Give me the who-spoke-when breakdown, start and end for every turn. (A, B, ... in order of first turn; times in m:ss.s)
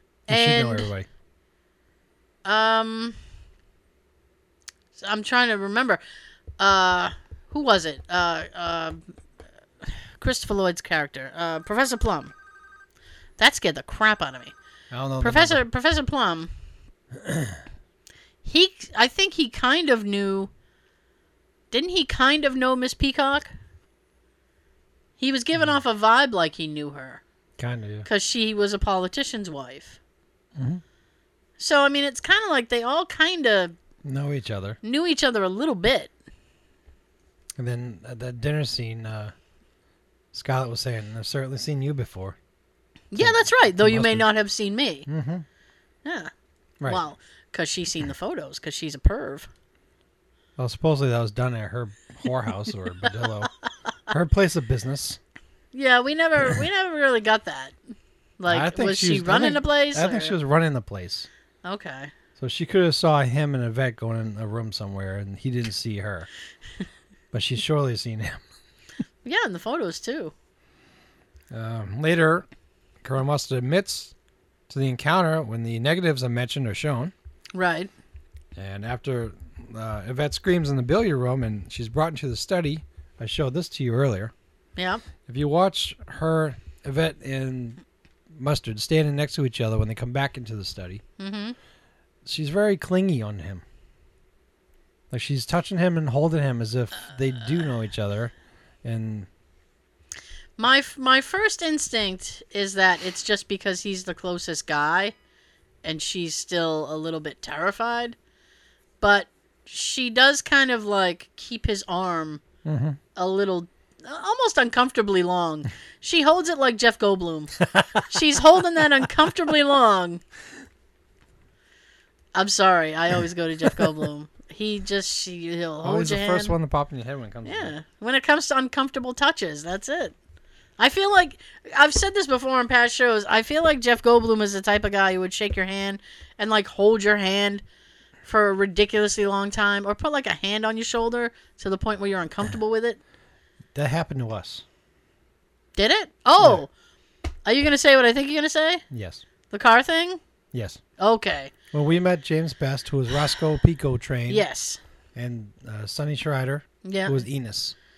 0:00.3-0:01.1 A
0:00.3-0:00.9 B
0:02.4-0:03.2 B
0:05.0-0:06.0 B
0:06.6-0:09.0 B
0:09.8-0:12.3 B
0:13.4-0:14.5 B
0:14.9-0:15.6 A
0:15.2-0:16.5 B
0:17.2-0:17.5 A
0:18.4-0:20.5 B
0:21.7-0:23.5 B
0:25.2-0:27.2 B
0:27.6-0:28.1 A
0:28.0-0:30.0 B
0:30.5-0:30.8 A
0:31.6-0:33.7 B
0:34.0-0:34.8 A
0:34.8-0:36.1 B
0:37.6-0:39.3 A
0:40.3-0:42.4 A
0:43.1-0:45.1 B
0:43.2-0:44.3 A
0:45.1-0:45.4 A
0:46.0-0:46.3 B
0:46.8-0:49.5 B
0:50.6-0:53.5 A
0:54.1-0:55.2 A
0:55.7-0:57.7 B
0:58.4-1:00.4 B
0:58.5-1:01.3 A
1:01.6-1:02.1 B
1:02.4-1:06.3 A
1:07.3-1:08.4 A
1:09.2-1:10.3 B
1:11.5-1:12.5 A
1:13.0-1:14.1 A
1:14.7-1:17.1 A
1:17.5-1:17.9 B
1:18.5-1:24.3 A
1:24.8-1:25.0 B
1:25.2-1:27.8 A
1:28.3-1:31.0 A
1:31.2-1:31.6 B
1:32.2-1:33.6 A
1:35.1-1:38.3 A
1:38.8-1:39.3 A
1:40.6-1:45.1 B
1:45.8-1:48.2 B
1:49.0-1:52.4 B
1:52.6-1:53.0 A
1:53.2-2:00.2 B
1:57.7-1:58.0 A
2:02.3-2:06.5 B
2:05.8-2:07.7 A
2:07.4-2:10.1 B
2:10.8-2:17.6 B
2:18.2-2:23.0 B
2:23.7-2:24.6 A
2:25.8-2:26.7 B
2:27.4-2:28.8 B
2:28.9-2:29.2 A
2:29.5-2:30.2 B
2:30.5-2:30.8 A
2:31.0-2:31.5 B
2:31.7-2:34.4 A
2:34.3-2:34.8 B
2:35.1-2:37.7 A
2:36.8-2:37.2 B